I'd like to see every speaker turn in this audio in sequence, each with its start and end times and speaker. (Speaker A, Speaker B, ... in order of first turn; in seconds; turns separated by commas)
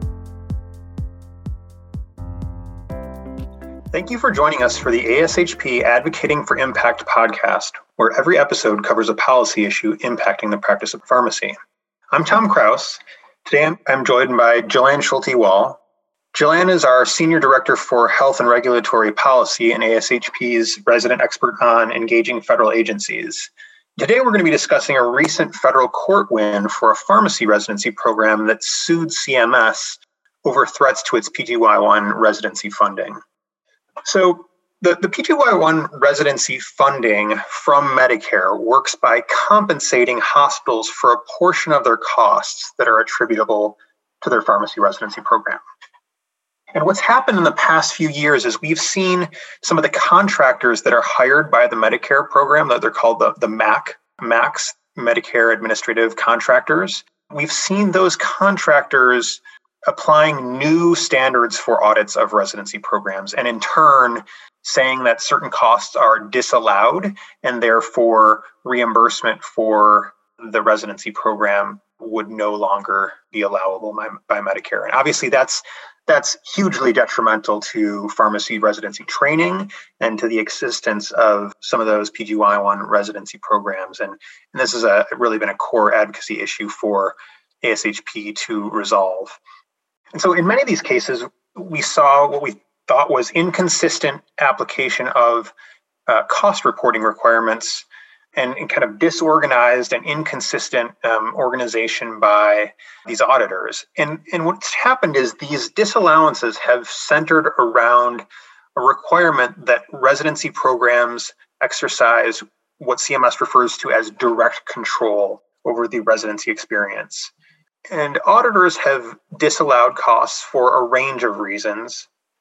Speaker A: 3.9-11.6, Speaker A: 12.1-15.8, Speaker A: 16.3-33.2, Speaker A: 34.0-45.6, Speaker A: 46.7-89.4, Speaker A: 90.1-95.5, Speaker A: 96.1-117.3, Speaker A: 117.9-122.1